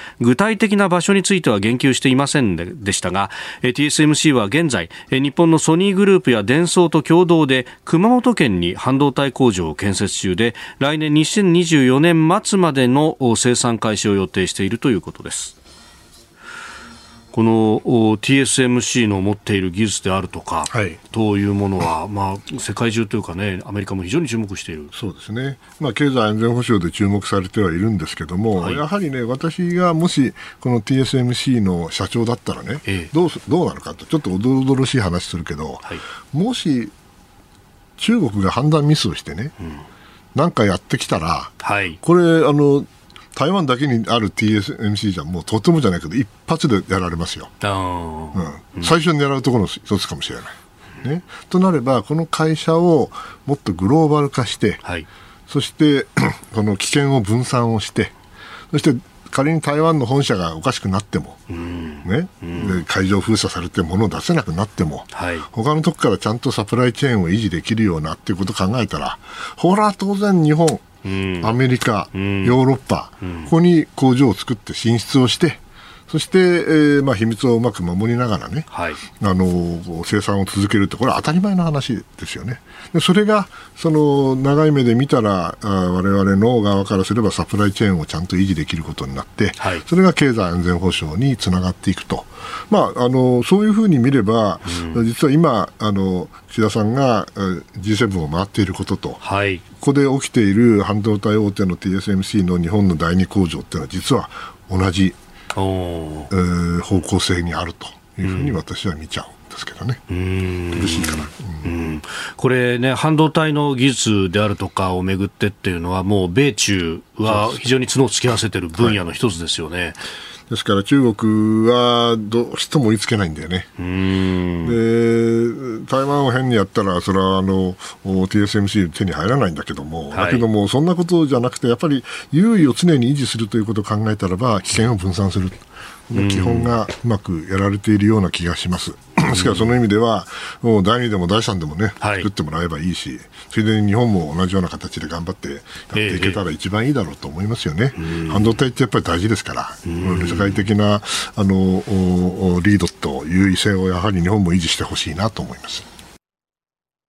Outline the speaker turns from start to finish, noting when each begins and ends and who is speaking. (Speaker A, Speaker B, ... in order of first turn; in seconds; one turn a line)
Speaker A: 0.2-15.6
Speaker A: 17.3-24.9
Speaker B: 20.7-21.0
Speaker B: 24.9-36.9
Speaker A: 32.9-33.1
Speaker B: 38.0-39.5
Speaker B: 40.4-47.5
Speaker A: 41.6-42.0
Speaker A: 47.6-48.9
Speaker B: 48.3-54.8
Speaker B: 55.5-58.1
Speaker B: 58.7-61.4
Speaker A: 61.5-62.8
Speaker B: 62.0-70.9
Speaker A: 65.1-65.5
Speaker A: 71.0-71.5
Speaker B: 71.4-99.2
Speaker A: 72.1-72.6
Speaker A: 73.2-73.5
Speaker A: 78.7-79.0
Speaker A: 89.6-89.8
Speaker A: 94.7-95.0
Speaker A: 99.2-99.6
Speaker B: 99.8-105.2
Speaker A: 105.5-106.3
Speaker B: 106.3-110.0
Speaker A: 108.2-108.6
Speaker A: 110.1-120.0
Speaker B: 110.7-111.7
Speaker B: 117.3-117.7
Speaker B: 120.5-123.7
Speaker A: 123.8-124.8
Speaker B: 124.7-155.9
Speaker A: 130.1-130.4
Speaker A: 136.1-136.7
Speaker A: 139.3-139.7
Speaker A: 142.0-142.3
Speaker A: 145.9-146.4
Speaker A: 148.0-148.6
Speaker A: 149.8-150.7